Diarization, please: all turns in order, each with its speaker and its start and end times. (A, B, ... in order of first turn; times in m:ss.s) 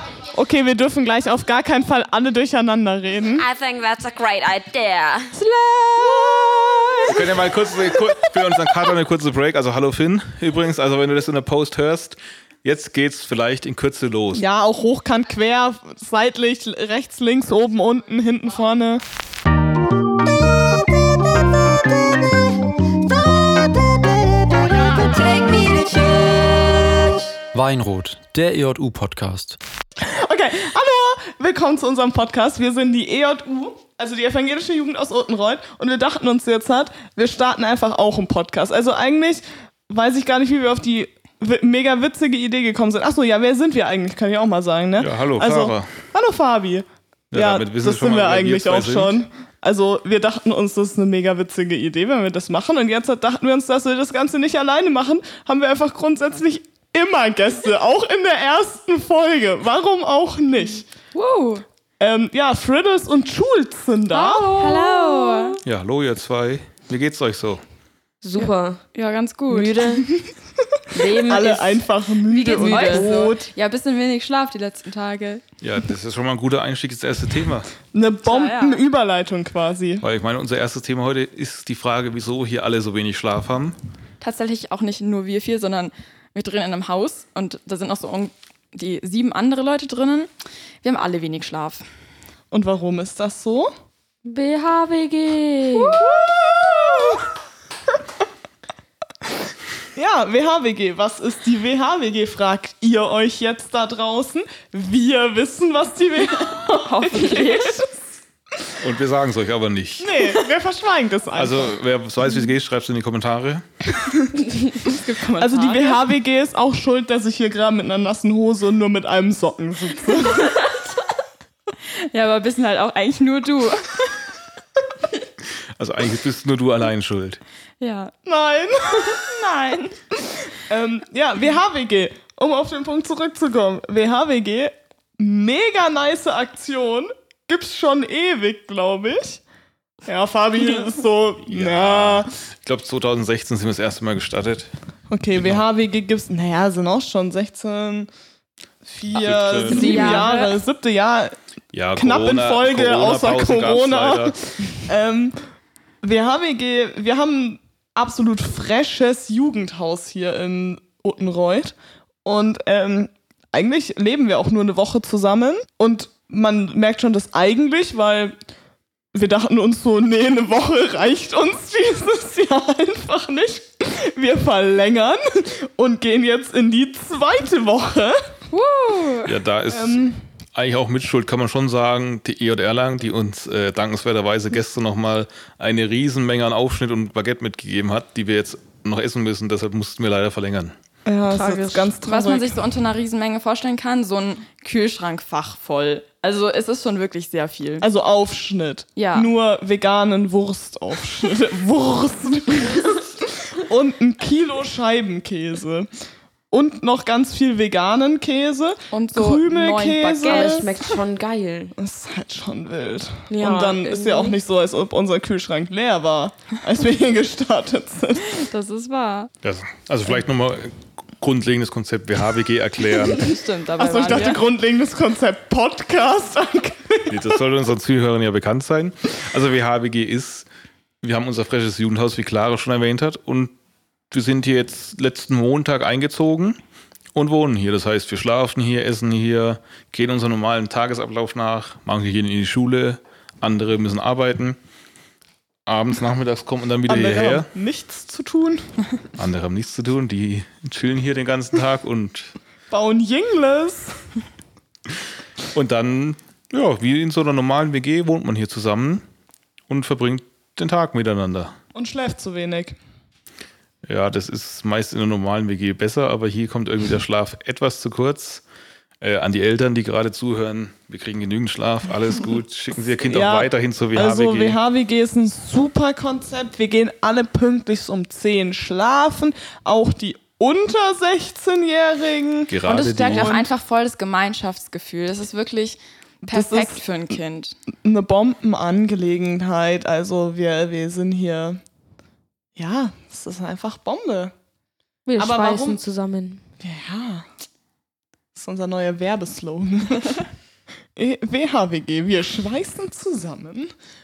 0:00.3-0:03.5 A
0:03.4-0:05.3 B
0:05.4-0:07.4 A
0:06.1-0:07.1 B
0:07.1-0:14.4 C
0:14.3-0:19.0 A
0:27.5-0:29.6 D
0:30.0-1:00.8 A
0:45.0-0:45.9 C
0:47.3-0:49.2 C
1:01.1-1:01.6 E
1:02.0-1:04.5 A
1:04.1-1:05.6 E
1:04.2-1:05.6 B
1:05.6-1:07.6 C
1:08.2-1:08.8 B
1:08.4-1:09.8 E
1:09.5-1:10.1 B
1:10.9-1:13.1 B
1:11.2-1:13.5 A
1:12.4-1:15.4 E
1:15.6-1:17.7 C
1:17.9-1:20.0 A
1:18.2-1:18.8 E
1:20.0-1:23.8 C
1:24.2-1:30.3 E
1:30.8-1:31.8 E
1:32.5-1:33.7 A
1:34.2-1:36.0 B
1:35.9-1:37.2 A
1:39.9-1:47.9 A
1:46.8-1:47.8 E
1:48.8-1:50.2 C
1:50.0-1:51.7 A
1:51.3-1:53.6 C
1:54.1-2:00.6 A
1:54.8-1:56.0 E
2:01.9-2:04.2 E
2:05.8-2:07.4 C
2:07.8-2:08.1 E
2:08.2-2:09.2 A
2:09.1-2:10.0 E
2:10.4-2:19.4 A
2:20.0-2:22.3 A
2:21.4-2:24.7 C
2:25.1-2:28.1 A
2:25.3-2:25.6 C
2:28.8-2:31.3 A
2:29.1-2:30.1 C
2:29.7-2:30.5 E
2:29.7-2:30.4 B
2:31.7-2:34.4 C
2:32.0-2:35.4 A
2:36.0-2:41.7 A
2:42.2-2:48.3 A
2:49.1-2:58.2 A
2:58.5-2:59.4 E
2:59.2-3:00.0 C
2:59.7-3:00.2 A
3:00.5-3:10.7 C
3:11.0-3:12.5 A
3:11.4-3:17.8 E
3:17.8-3:25.9 A
3:19.0-3:19.3 E
3:26.5-3:30.7 A
3:28.9-3:30.8 E
3:30.2-3:31.7 B
3:31.8-3:38.4 A
3:33.3-3:34.4 B
3:38.3-3:39.3 E
3:39.4-3:43.4 C
3:42.9-3:44.4 E
3:43.8-3:47.4 A
3:47.1-3:50.5 C
3:51.0-3:53.5 C
3:54.1-3:56.6 C
3:57.1-4:04.6 C
4:05.6-4:07.5 C
4:06.9-4:08.7 A
4:09.2-4:12.3 C
4:12.7-4:14.0 A
4:15.5-4:19.0 C
4:19.7-4:21.5 C
4:21.7-4:22.8 A
4:23.8-4:28.4 C
4:29.0-4:34.6 C
4:33.1-4:43.5 A
4:42.5-4:43.4 C
4:42.6-4:47.6 E
4:46.3-4:46.8 A
4:47.8-4:51.6 A
4:52.6-4:54.3 A
4:55.0-4:56.4 B
4:55.2-4:55.8 A
4:56.6-4:57.2 A
4:58.3-5:00.2 A
5:01.0-5:03.7 A